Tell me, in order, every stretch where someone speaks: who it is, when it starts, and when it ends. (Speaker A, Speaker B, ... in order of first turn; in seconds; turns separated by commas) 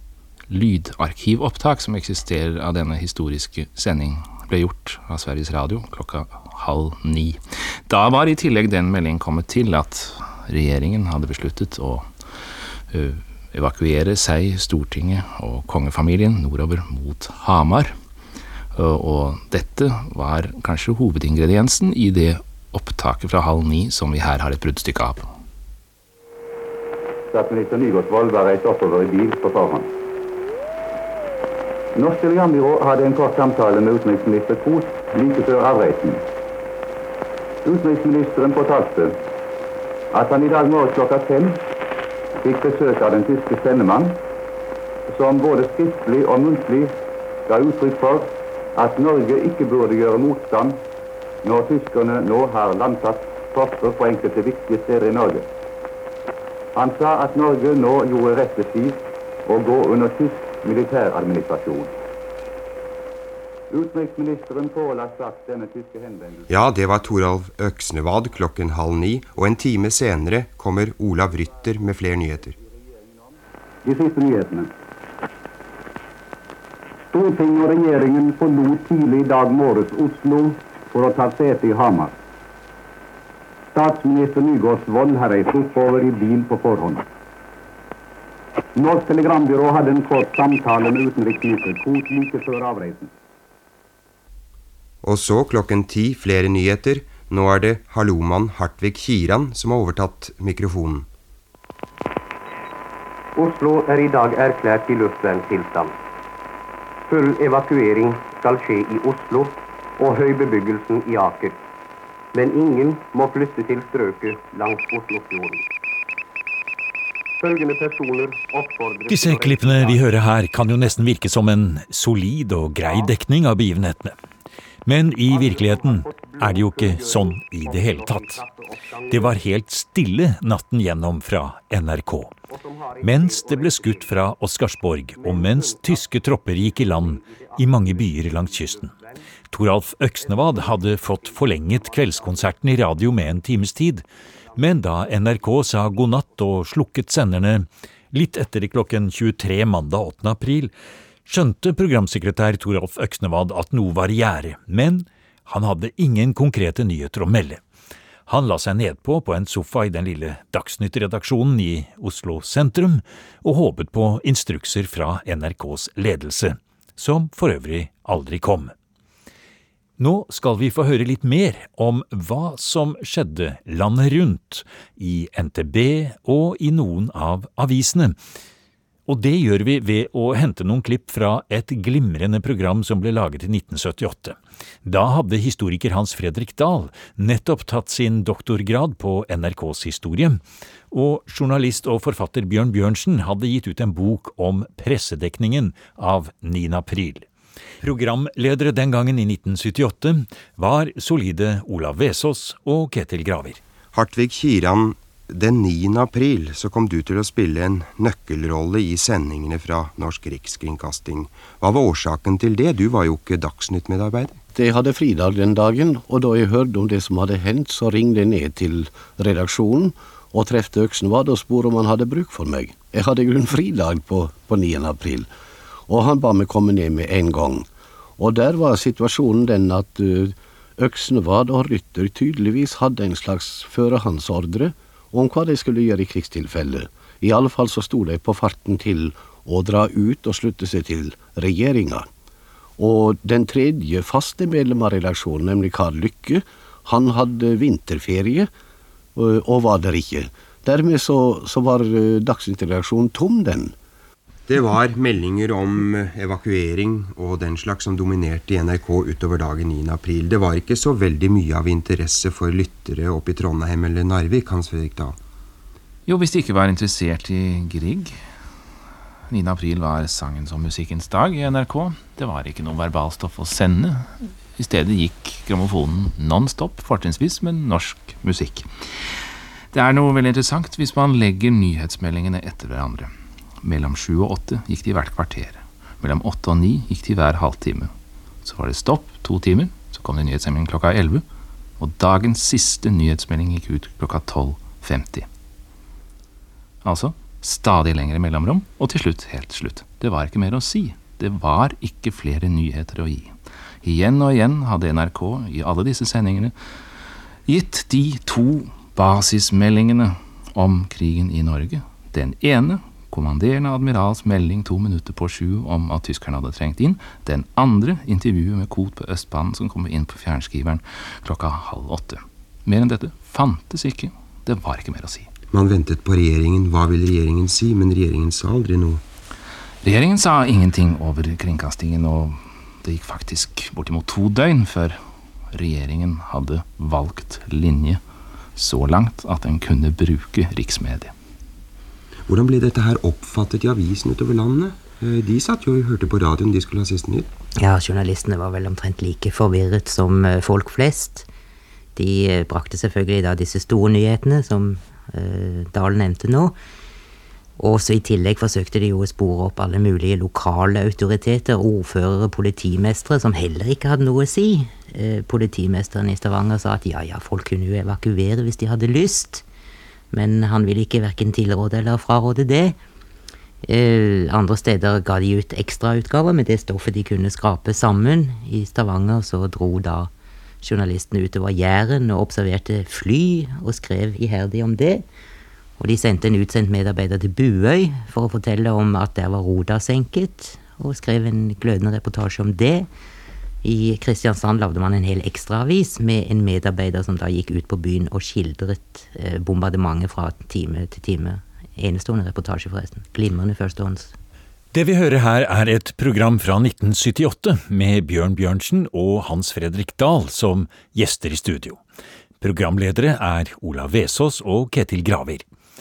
Speaker A: 0.5-12.1, Speaker A: 12.9-18.0, Speaker A: 18.7-25.3, Speaker B: 27.3-29.9, Speaker B: 31.9-36.2, Speaker B: 37.6-39.2, Speaker B: 40.1-41.6, Speaker B: 42.4-44.2, Speaker B: 45.1-46.9, Speaker B: 47.5-50.8, Speaker B: 51.4-55.5, Speaker B: 56.8-62.0, Speaker B: 63.7-66.4, Speaker C: 66.5-72.5, Speaker B: 73.8-74.7, Speaker B: 77.1-82.1, Speaker B: 83.7-87.0, Speaker B: 88.8-93.1, Speaker C: 95.0-101.1, Speaker B: 103.3-106.0, Speaker B: 107.1-111.6, Speaker B: 112.3-115.6, Speaker B: 117.4-120.0, Speaker D: 119.1-124.2, Speaker B: 122.8-123.1, Speaker D: 124.8-128.4, Speaker B: 125.3-129.4, Speaker D: 129.1-132.4, Speaker B: 132.5-134.2, Speaker D: 133.0-138.9, Speaker B: 135.2-136.1, Speaker B: 136.7-139.3, Speaker D: 139.5-150.7, Speaker B: 140.2-142.6, Speaker B: 144.5-144.9, Speaker D: 151.2-157.6, Speaker D: 158.3-168.7, Speaker D: 170.0-178.2, Speaker D: 179.1-197.2, Speaker D: 197.8-203.6, Speaker C: 203.9-214.4, Speaker E: 214.5-225.3, Speaker E: 225.9-227.7, Speaker E: 228.2-242.1, Speaker E: 242.8-248.5, Speaker E: 249.2-253.7, Speaker C: 254.5-265.1, Speaker A: 266.1-268.2, Speaker A: 269.3-279.1, Speaker A: 279.7-287.9, Speaker A: 288.4-291.2, Speaker A: 291.8-295.3, Speaker A: 296.8-306.6, Speaker A: 307.4-325.3, Speaker C: 325.5-329.0, Speaker A: 329.8-335.0, Speaker A: 335.5-338.0, Speaker A: 338.6-341.1, Speaker C: 342.3-347.3, Speaker F: 347.6-351.3, Speaker F: 351.9-356.5, Speaker F: 357.6-369.4, Speaker F: 370.1-372.8, Speaker F: 373.6-380.1, Speaker F: 380.6-385.0, Speaker F: 385.8-392.9, Speaker F: 393.6-404.1, Speaker D: 404.7-411.8, Speaker D: 412.4-415.4